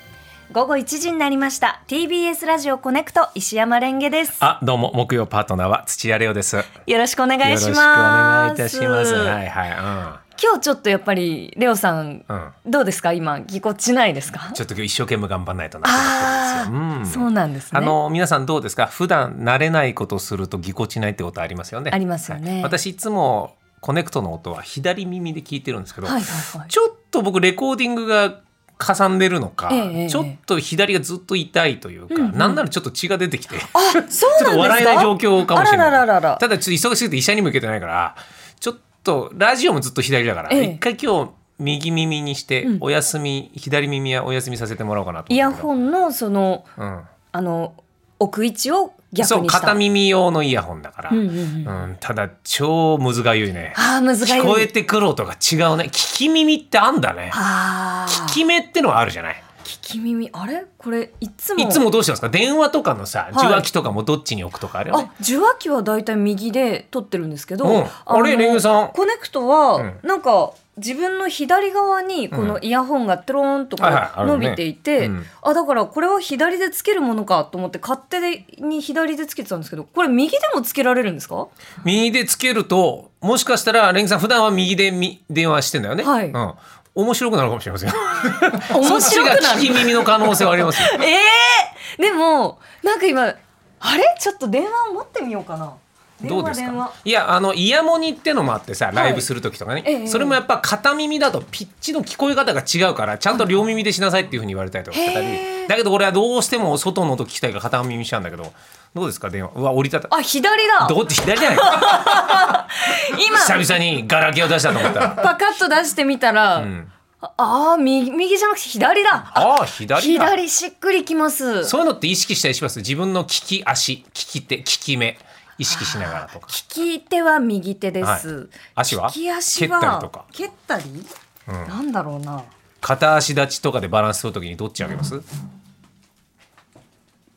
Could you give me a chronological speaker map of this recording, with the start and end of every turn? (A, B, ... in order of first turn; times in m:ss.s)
0:00.5-0:04.4 A
0:04.4-0:06.7 B
0:06.8-0:09.4 A
0:07.4-0:10.2 B
0:10.4-0:14.6 A
0:12.3-0:12.5 B
0:14.5-0:45.7 B
0:15.8-0:18.0 A
0:21.9-0:22.8 A
0:26.0-0:26.7 A
0:29.7-0:30.4 A
0:32.1-0:32.6 A
0:33.7-0:36.4 A
0:40.5-0:40.8 A
0:45.3-0:46.7 A
0:46.8-0:47.1 B
0:47.3-0:49.8 A
0:49.2-0:57.4 B
0:51.1-0:51.8 A
0:53.7-0:54.7 A
0:57.3-0:58.4 A
0:58.1-0:59.4 B
0:59.6-1:01.8 A
1:01.6-1:05.1 B
1:03.3-1:03.7 A
1:04.9-1:21.5 A
1:07.6-1:09.0 B
1:12.3-1:12.6 B
1:13.8-1:15.3 B
1:21.8-1:31.0 B
1:26.0-1:26.4 A
1:28.6-1:37.0 A
1:36.2-1:50.1 B
1:38.9-1:39.3 A
1:39.8-1:40.4 A
1:44.9-1:45.7 A
1:50.1-1:53.8 A
1:50.8-1:52.2 B
1:53.2-1:55.3 B
1:54.8-2:01.7 A
1:56.6-1:56.9 B
1:59.3-2:00.4 B
2:01.6-2:06.6 B
2:05.7-2:11.1 A
2:08.0-2:10.2 B
2:11.5-2:11.7 B
2:11.6-2:12.5 A
2:12.8-2:15.2 B